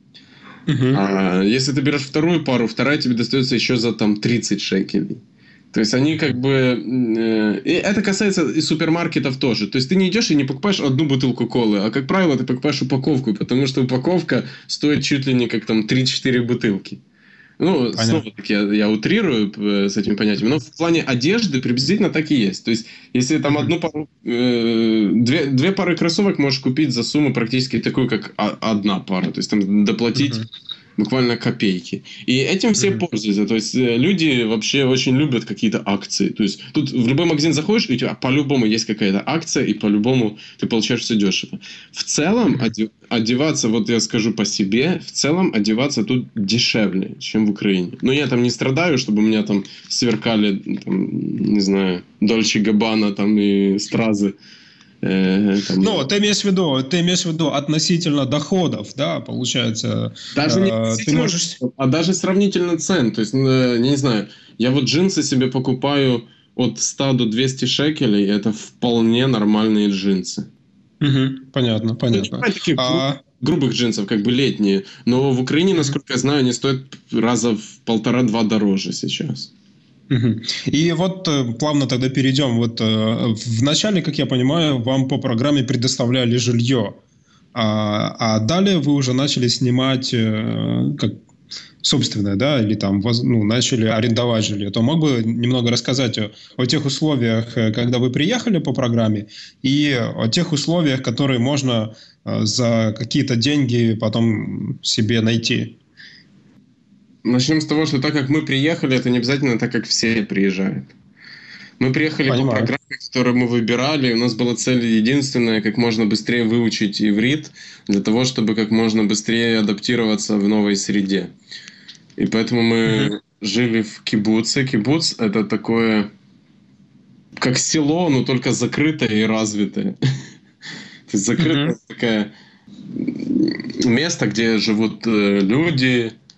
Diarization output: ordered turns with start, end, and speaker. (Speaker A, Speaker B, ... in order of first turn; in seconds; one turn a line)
Speaker A: 0.7-1.0
Speaker B: 0.9-5.2
Speaker B: 5.7-17.0
Speaker B: 17.6-30.4
Speaker A: 17.9-18.2
Speaker A: 30.2-30.4
Speaker B: 31.0-54.3
Speaker A: 32.8-33.0
Speaker B: 55.0-56.0
Speaker A: 55.8-61.6
Speaker B: 60.3-70.5
Speaker A: 71.0-73.2
Speaker B: 72.1-79.5
Speaker A: 80.1-87.0
Speaker A: 87.5-91.2
Speaker A: 91.8-105.8
Speaker B: 107.2-110.9
Speaker B: 111.8-121.3
Speaker A: 112.3-112.7
Speaker B: 122.2-126.1
Speaker A: 122.9-123.1
Speaker B: 127.4-130.0
Speaker B: 131.1-132.3
Speaker A: 131.4-131.7
Speaker B: 132.9-136.1